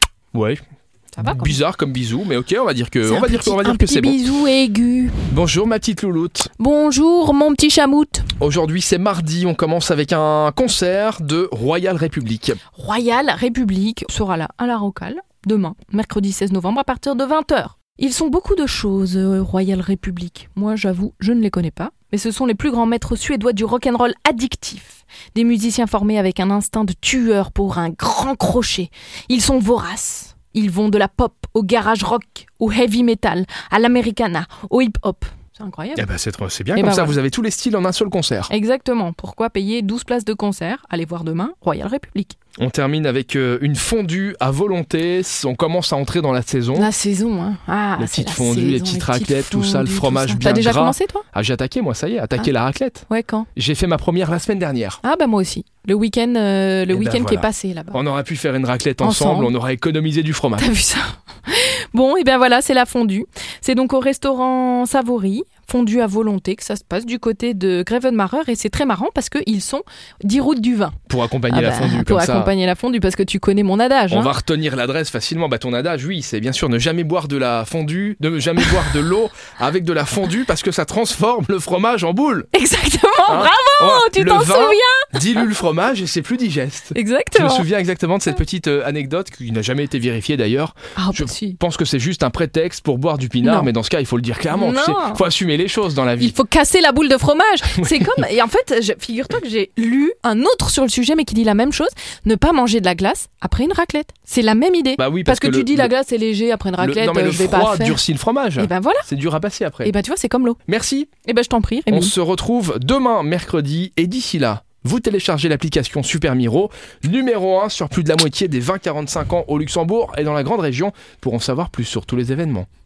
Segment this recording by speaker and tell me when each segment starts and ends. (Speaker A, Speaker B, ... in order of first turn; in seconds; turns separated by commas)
Speaker A: 0.3-0.6, Speaker B: 1.1-1.6, Speaker A: 1.2-4.3, Speaker B: 3.0-5.2, Speaker A: 5.3-6.5, Speaker B: 6.6-8.3, Speaker A: 8.4-12.6, Speaker B: 12.7-36.1, Speaker A: 36.0-38.5, Speaker B: 36.8-37.2, Speaker B: 38.5-42.4, Speaker A: 42.6-46.9, Speaker B: 46.8-51.2, Speaker A: 48.0-55.0, Speaker B: 53.1-53.5, Speaker B: 55.0-58.0, Speaker A: 56.9-60.7, Speaker B: 59.0-59.5, Speaker B: 60.6-74.3, Speaker A: 71.1-72.5, Speaker A: 74.1-82.5, Speaker B: 82.5-85.1, Speaker A: 83.3-96.3, Speaker B: 86.9-87.7, Speaker B: 91.0-91.6, Speaker B: 93.4-93.7, Speaker B: 94.5-95.2, Speaker B: 96.2-108.0, Speaker A: 97.8-98.1, Speaker A: 105.0-105.9, Speaker A: 106.8-109.9, Speaker B: 108.6-109.1, Speaker B: 109.8-110.6, Speaker A: 110.7-111.1, Speaker B: 111.2-112.1, Speaker A: 111.9-122.7